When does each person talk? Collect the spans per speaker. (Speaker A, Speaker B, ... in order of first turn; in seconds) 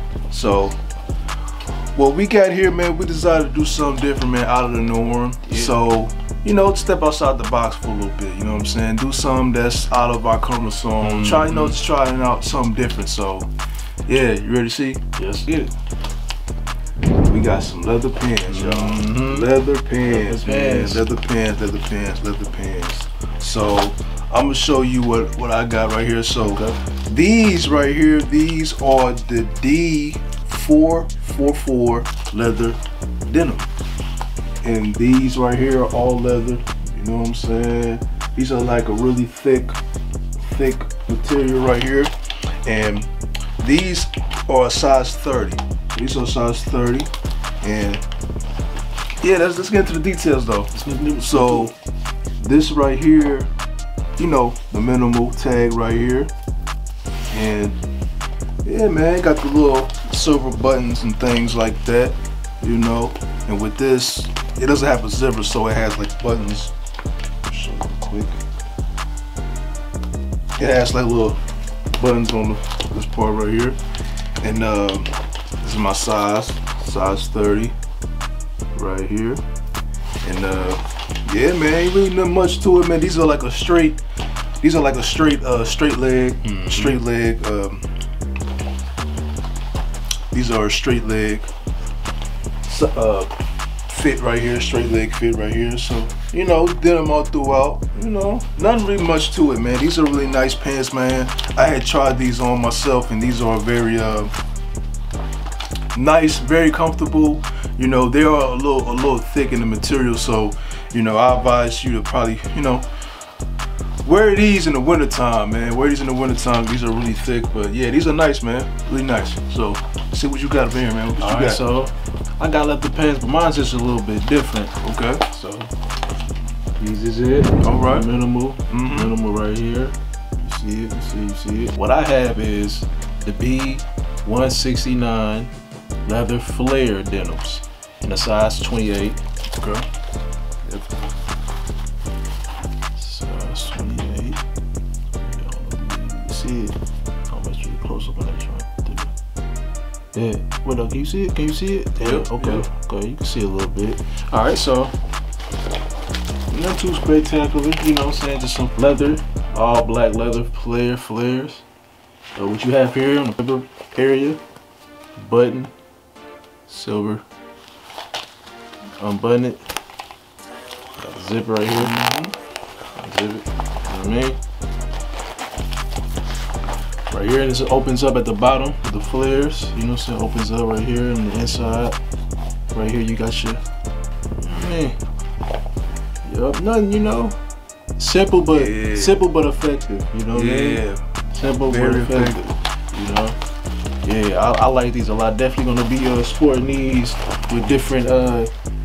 Speaker A: 0.3-0.8, 1.9-13.5, 14.1-15.7, 17.3-33.7, 34.6-39.8, 40.4-42.1, 42.6-43.1, 43.6-47.1, 47.6-48.0, 49.2-51.7, 52.4-53.5, 54.2-56.3, 57.3-57.8, 58.6-66.7, 67.5-68.4, 70.6-71.4, 72.0-73.8, 74.4-77.8, 78.8-79.4, 80.2-84.0, 84.6-87.9, 90.3-91.5, 92.7-93.3, 93.9-104.3, 105.9-112.9, 114.0-121.6, 124.8-125.2, 127.6-128.1, 128.7-129.2, 139.6-139.8, 152.0-152.7, 171.7-172.3, 188.5-189.2, 190.3-191.1, 191.7-192.5
Speaker B: 5.5-5.8, 11.0-11.8, 15.2-15.5, 18.5-19.5, 20.0-21.1, 26.4-26.8, 50.7-51.7, 86.4-87.0, 121.2-124.8, 125.3-125.7, 126.8-135.5, 136.1-139.2, 143.0-144.4, 145.2-146.8, 147.3-149.1, 150.1-154.9, 156.5-161.7, 162.3-164.4, 165.2-165.7, 166.7-167.2, 169.0-169.7, 171.0-172.0, 173.0-174.4, 177.1-182.0, 182.7-183.6, 184.4-185.0, 186.3-187.4, 188.0-193.4, 194.0-198.5